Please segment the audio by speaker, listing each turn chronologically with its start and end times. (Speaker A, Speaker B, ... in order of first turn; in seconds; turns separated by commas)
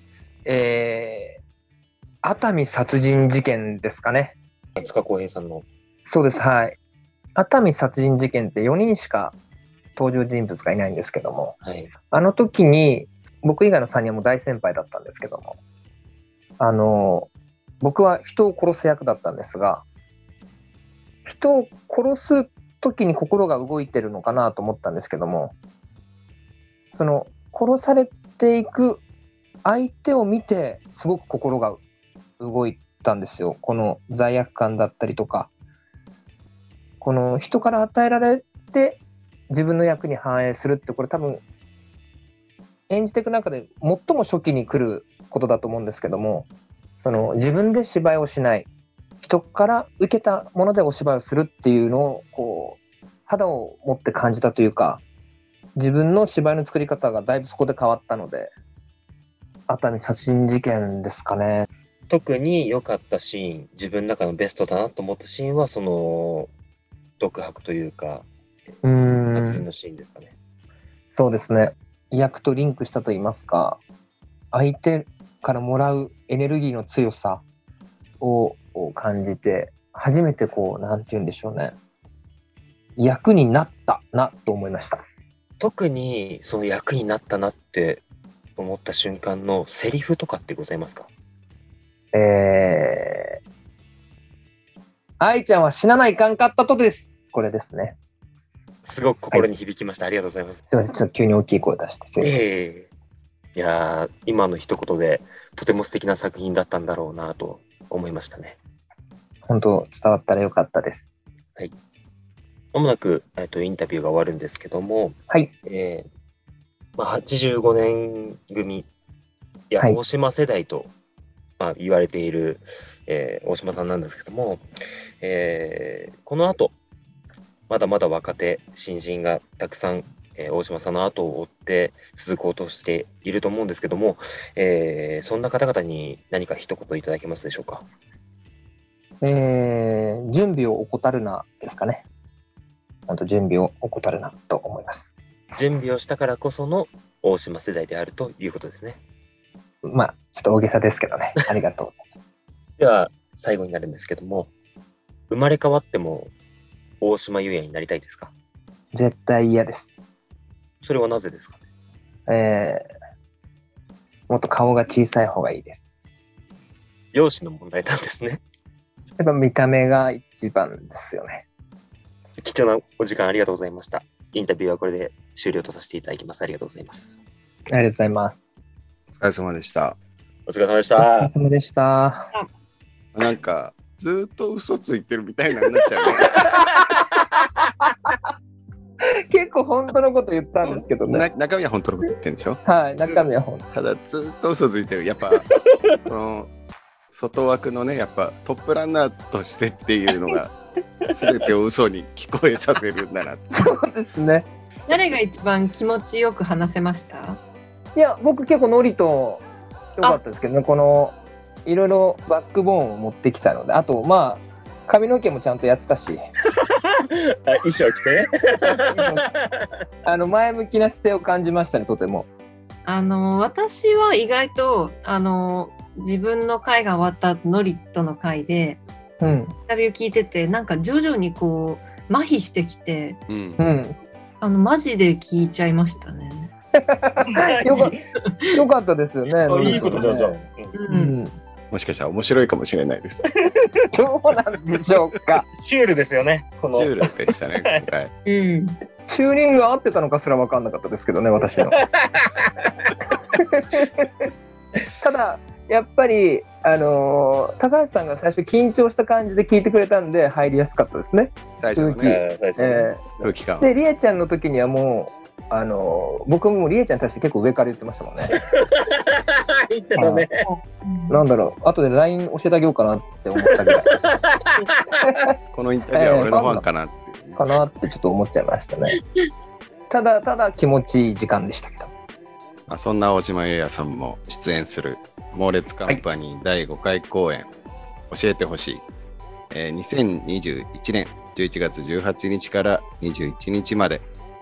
Speaker A: 0.5-1.4, Speaker A: 2.2-4.4, Speaker B: 4.8-5.7, Speaker A: 6.0-6.8, Speaker A: 7.4-9.3, Speaker A: 10.0-11.6, Speaker B: 11.6-11.9, Speaker A: 12.1-15.6, Speaker A: 16.6-17.3, Speaker A: 17.8-19.8, Speaker A: 21.2-25.6, Speaker A: 26.9-29.0, Speaker A: 29.6-31.8, Speaker A: 32.4-35.5, Speaker A: 37.0-41.4, Speaker A: 42.9-46.5, Speaker A: 47.0-48.7, Speaker A: 49.2-55.0, Speaker A: 55.8-58.5, Speaker A: 59.7-61.7, Speaker B: 62.1-66.5, Speaker B: 67.2-68.3, Speaker A: 68.8-69.7, Speaker B: 69.3-70.3, Speaker A: 71.1-73.8, Speaker A: 74.5-77.4, Speaker A: 78.2-81.8, Speaker A: 83.0-85.0, Speaker B: 85.6-88.0, Speaker B: 88.6-91.1, Speaker A: 92.1-93.4, Speaker A: 95.2-98.0, Speaker B: 98.8-100.6, Speaker A: 100.7-102.4, Speaker B: 102.2-102.9, Speaker B: 103.5-108.6, Speaker A: 109.5-111.1, Speaker B: 112.7-116.1, Speaker B: 117.0-118.9, Speaker B: 119.7-120.9, Speaker B: 121.6-124.6, Speaker B: 125.2-126.7, Speaker B: 127.7-137.9, Speaker A: 139.2-142.1, Speaker A: 143.1-145.1, Speaker B: 145.6-149.0, Speaker A: 149.9-152.0, Speaker B: 152.8-154.5, Speaker B: 155.3-156.3, Speaker B: 157.0-158.3, Speaker A: 158.9-159.9, Speaker B: 160.8-161.6, Speaker A: 162.3-162.9, Speaker A: 164.3-165.8, Speaker B: 167.1-168.4, Speaker A: 169.2-171.4, Speaker B: 172.4-177.2, Speaker A: 177.7-178.4, Speaker C: 179.2-180.0, Speaker B: 180.5-181.3, Speaker A: 181.0-182.3, Speaker C: 183.2-186.7, Speaker A: 186.3-186.8, Speaker A: 189.3-191.3, Speaker C: 190.6-192.6, Speaker A: 192.7-193.6, Speaker C: 193.7-195.5, Speaker C: 196.0-196.5, Speaker C: 197.1-203.4, Speaker A: 203.5-204.5, Speaker D: 204.9-207.4, Speaker A: 207.9-209.4, Speaker A: 210.0-216.2, Speaker B: 216.6-219.7, Speaker A: 218.6-219.3, Speaker A: 220.1-222.3, Speaker D: 222.8-228.8, Speaker A: 229.2-229.6, Speaker D: 229.7-233.2, Speaker C: 233.3-233.6, Speaker A: 233.6-234.0, Speaker D: 234.4-236.5, Speaker A: 236.8-238.0, Speaker B: 237.2-238.0, Speaker D: 238.2-238.6, Speaker A: 238.5-240.4, Speaker B: 239.4-240.7, Speaker D: 240.7-241.2, Speaker A: 240.9-241.3, Speaker C: 241.7-243.3, Speaker B: 243.5-243.8, Speaker A: 243.9-245.5, Speaker B: 245.5-247.1, Speaker C: 246.7-248.1, Speaker D: 248.3-248.8, Speaker A: 249.1-251.8, Speaker B: 251.6-252.7, Speaker A: 253.3-254.3, Speaker A: 255.0-268.4, Speaker C: 261.6-262.2, Speaker B: 262.1-262.9, Speaker C: 263.2-263.7, Speaker B: 268.3-270.4, Speaker A: 270.0-270.3, Speaker D: 270.4-271.2, Speaker A: 271.1-273.9, Speaker B: 273.4-275.2, Speaker A: 275.1-275.3, Speaker C: 275.5-277.4, Speaker A: 275.9-276.7, Speaker A: 277.4-279.0, Speaker A: 279.9-281.9, Speaker C: 282.7-287.5, Speaker C: 288.1-288.8, Speaker C: 289.5-294.1